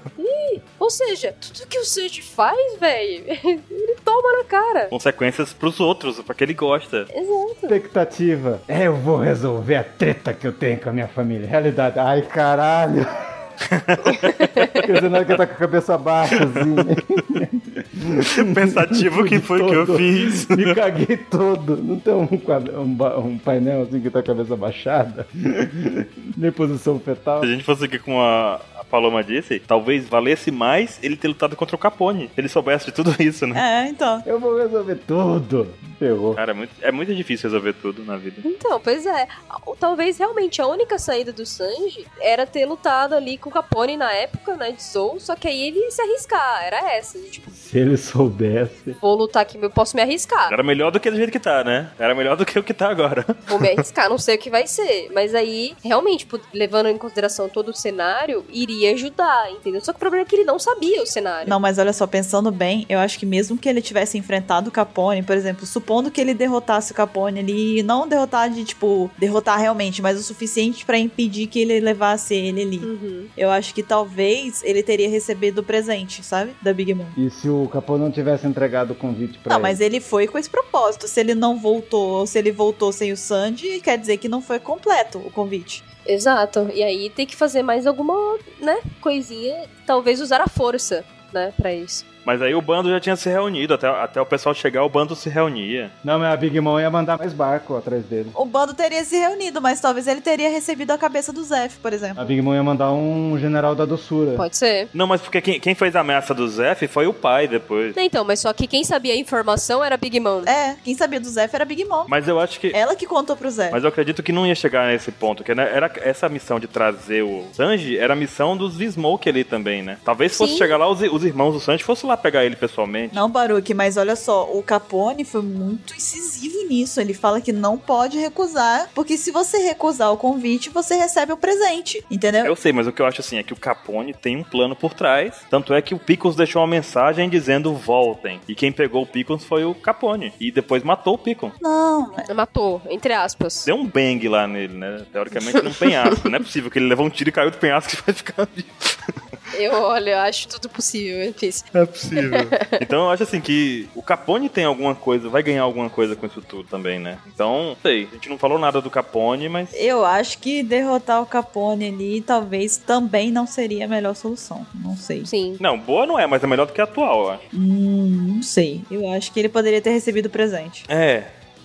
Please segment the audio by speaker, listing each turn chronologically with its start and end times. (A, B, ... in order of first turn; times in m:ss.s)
0:00.2-0:04.9 A
0:04.9-0:07.1 B
0:07.1-0:07.8 A
0:07.7-0:13.1 C
0:13.7-0:14.3 B
0:14.2-0:14.8 A
0:14.8-0:27.5 C
0:18.3-0:20.8 B
0:27.4-0:33.6 B
0:33.5-0:34.2 D
0:34.2-0:36.4 C
0:36.3-0:38.4 B
0:38.4-0:47.5 A
0:47.5-0:49.0 C
0:49.0-0:50.6 A
0:50.5-0:53.8 B
0:53.4-1:01.6 A
1:01.4-1:17.2 D
1:12.8-1:13.3 A
1:17.2-1:19.8 C
1:19.5-1:25.8 D
1:26.0-1:32.0 A
1:32.2-1:35.9 B
1:36.0-1:38.4 C
1:38.3-1:42.2 D
1:42.2-1:44.4 C
1:44.4-1:44.9 A
1:44.9-1:48.0 B
1:47.9-1:50.5 A
1:50.4-1:52.1 D
1:52.1-1:52.8 B
1:52.7-1:53.8 D
1:53.7-2:03.2 B
2:00.4-2:00.8 A
2:03.1-2:12.5 D
2:12.4-2:21.6 B
2:21.6-2:22.2 D
2:22.3-2:23.7 A
2:23.6-2:29.1 B
2:25.4-2:26.2 A
2:29.5-2:32.8 A
2:31.7-2:39.8 B
2:39.7-2:45.3 D
2:45.2-2:45.6 A
2:45.6-2:47.4 B
2:47.5-2:50.8 D
2:50.9-2:51.3 B